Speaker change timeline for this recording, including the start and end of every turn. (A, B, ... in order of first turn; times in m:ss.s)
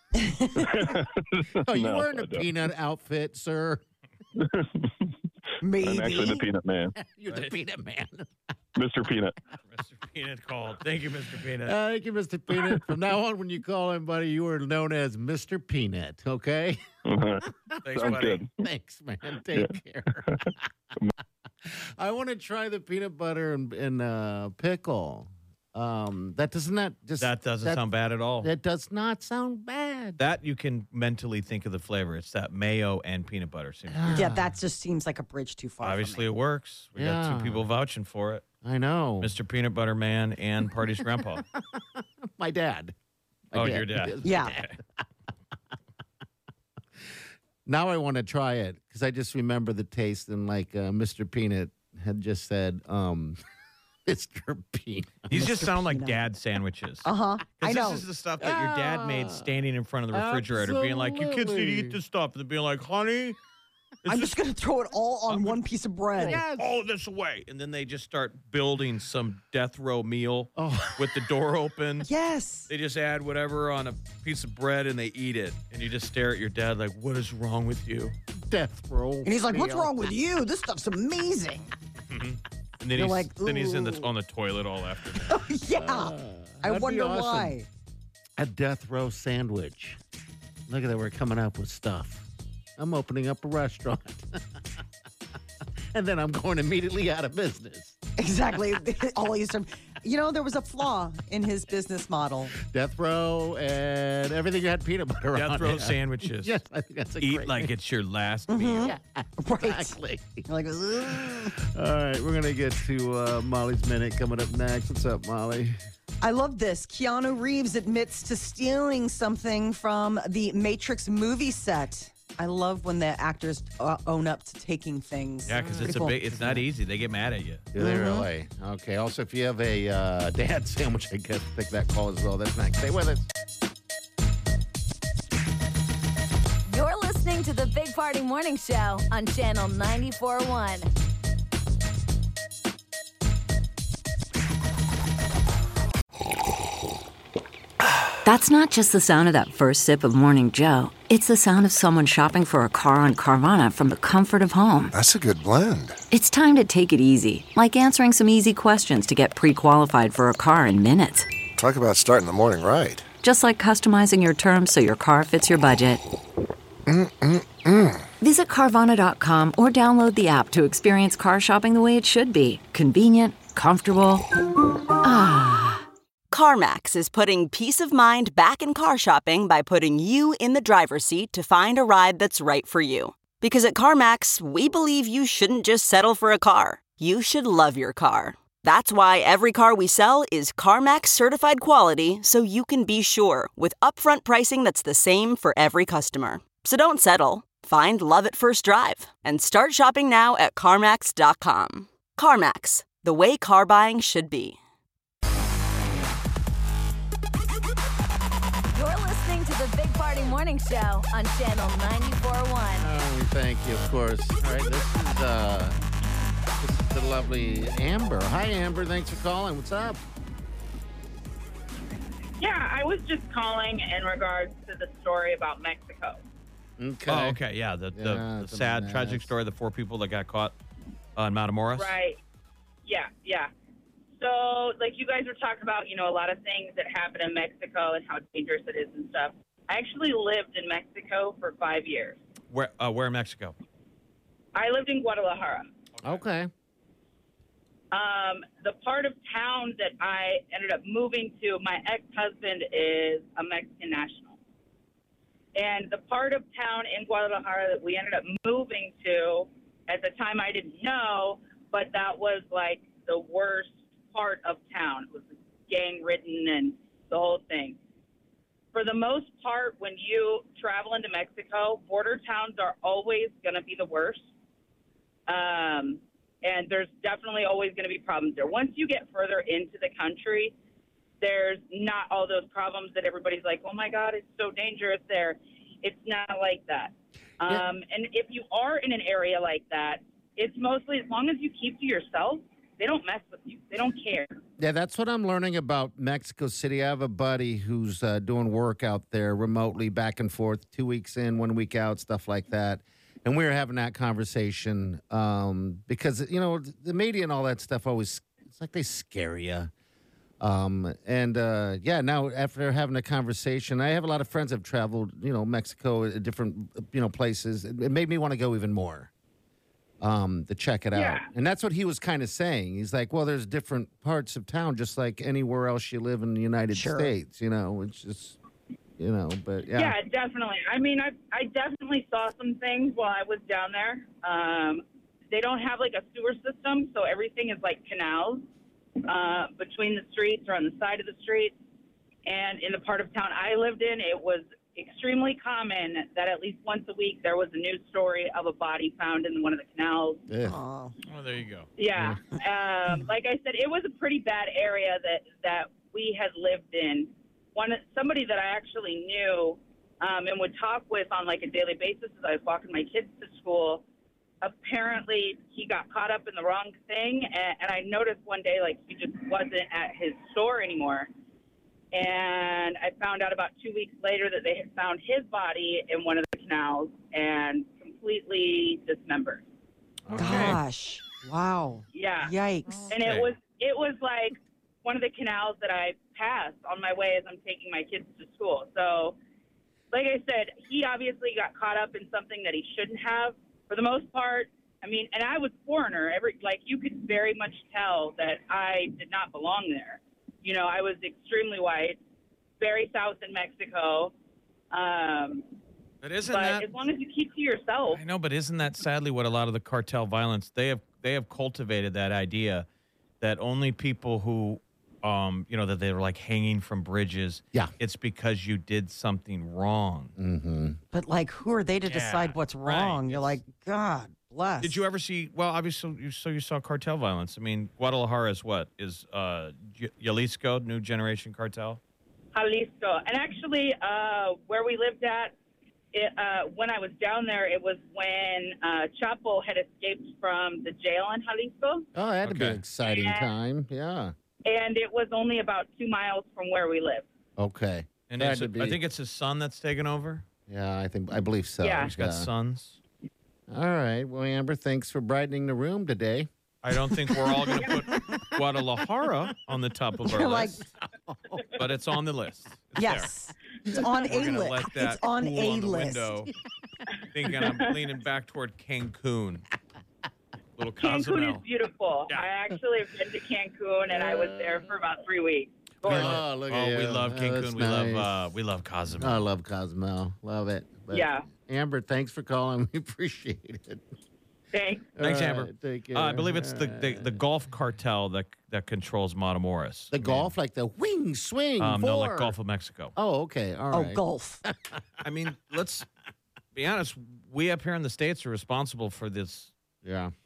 0:00.2-0:00.7 A
0:00.6-0:02.4 B
0:01.6-0:03.8 C
0:04.4-0:05.1 B
0:05.6-0:06.4 A
0:05.8-0:06.9 B
0:06.9-0:08.3 C
0:08.8-0:09.4 B
0:09.7-0:11.8 D
0:11.6-0:16.8 C
0:17.0-0:18.5 B
0:17.4-0:20.6 C
0:17.8-0:18.4 D
0:20.3-0:21.1 B
0:21.6-0:27.8 C
0:27.2-0:28.5 D
0:28.4-0:30.2 C
0:30.2-0:34.3 D
0:33.9-0:34.5 C
0:34.1-0:36.2 A
0:35.8-0:38.4 D
0:37.0-0:37.6 C
0:38.6-0:39.3 C
0:39.2-0:41.4 D
0:41.2-0:42.9 C
0:43.5-0:45.0 C
0:43.5-0:44.7 D
0:44.2-0:44.6 A
0:47.6-0:53.4 C
0:54.0-0:55.4 C
0:55.3-1:03.4 D
0:55.3-0:56.2 A
0:57.0-0:58.0 A
0:58.4-0:59.5 C
1:00.1-1:02.0 C
1:04.0-1:04.3 D
1:04.1-1:06.4 A
1:05.3-1:05.6 D
1:06.2-1:06.7 C
1:06.2-1:12.1 D
1:10.6-1:11.1 C
1:12.0-1:12.7 A
1:12.7-1:18.1 D
1:18.5-1:20.1 C
1:19.2-1:21.7 A
1:22.1-1:25.5 D
1:22.9-1:24.1 A
1:25.2-1:27.7 A
1:25.7-1:27.6 C
1:28.4-1:30.0 C
1:30.7-1:34.4 C
1:35.9-1:38.0 C
1:38.2-1:42.5 A
1:42.6-1:47.7 C
1:45.3-1:46.6 D
1:47.2-1:48.9 D
1:48.5-1:51.5 A
1:48.8-1:50.4 C
1:51.0-1:55.8 C
1:56.2-2:06.6 A
2:05.5-2:07.7 D
2:05.6-2:06.0 C
2:07.7-2:13.3 C
2:07.8-2:08.3 A
2:16.7-2:20.9 E
2:28.2-2:34.9 F
2:34.9-2:36.0 G
2:36.1-2:41.3 F
2:41.6-2:43.1 G
2:43.2-2:46.0 F
2:46.9-2:48.1 G
2:48.2-2:54.2 F
2:55.0-2:55.8 F
2:56.3-3:24.6 H
3:28.7-3:32.9 E
3:32.8-3:35.8 C
3:36.6-3:40.0 C
3:42.4-3:46.2 I
3:46.8-3:47.4 C
3:47.1-3:50.5 D
3:47.9-3:49.3 C
3:51.2-3:52.0 D
3:51.7-3:52.2 I
3:52.8-3:53.5 I
3:54.1-4:02.2 I
4:02.5-4:03.5 D
4:04.5-4:05.7 I
4:05.9-4:06.2 D
4:06.0-4:06.5 C
4:07.9-4:14.4 I
4:15.6-4:27.8 I
4:28.7-4:34.3 I
4:35.3-4:40.5 I
4:41.2-4:54.4 I
4:54.6-5:09.7 C
5:10.4-5:19.1 C
5:20.0-5:28.4 C
5:20.9-5:21.3 I
5:26.7-5:27.1 A
5:29.0-5:29.9 C
5:29.7-5:38.4 I
5:39.1-5:41.6 I
5:42.2-5:50.2 I
5:50.3-5:50.6 C
5:50.4-5:50.9 A
5:51.0-5:51.7 D
5:51.8-6:03.8 I
6:04.4-6:11.1 I
6:11.9-6:19.4 I
6:20.1-6:20.6 D
6:20.1-6:20.6 C
6:20.1-6:22.9 A
6:21.9-6:22.3 I
6:22.9-6:29.2 I
6:22.9-6:23.3 D
6:29.9-6:42.0 I
6:42.6-6:44.1 I
6:44.7-6:45.4 I
6:46.0-6:46.7 D
6:46.3-6:48.0 I
6:47.9-6:52.6 D
6:53.2-7:00.1 D
7:00.2-7:00.8 C
7:00.9-7:04.8 A
7:01.9-7:03.4 D
7:04.6-7:11.8 D
7:12.3-7:15.3 I
7:15.9-7:21.8 I
7:21.9-7:24.1 C
7:22.2-7:22.6 D
7:22.8-7:23.3 I
7:24.4-7:27.0 I
7:27.4-7:28.8 C
7:28.1-7:30.2 D
7:30.5-7:32.3 C
7:31.6-7:31.9 I
7:31.8-7:32.8 D
7:33.5-7:36.3 C
7:36.6-7:40.6 D
7:40.0-7:40.6 A
7:41.1-7:41.4 C
7:41.6-7:43.1 D
7:42.8-7:46.1 A
7:43.8-7:46.3 D
7:47.1-7:49.4 D
7:47.3-7:47.8 I
7:50.6-7:51.4 D
7:50.8-7:56.2 I
7:53.9-7:54.6 C
7:55.8-7:58.2 C
7:55.8-7:59.2 D
7:58.9-8:03.8 C
8:00.9-8:01.3 I
8:04.5-8:04.9 I
8:05.0-8:07.2 C
8:05.0-8:10.3 D
8:09.9-8:12.4 C
8:11.6-8:12.9 D
8:13.0-8:14.8 C
8:13.7-8:14.4 A
8:15.0-8:15.8 D
8:16.5-8:19.5 D
8:19.8-8:20.1 C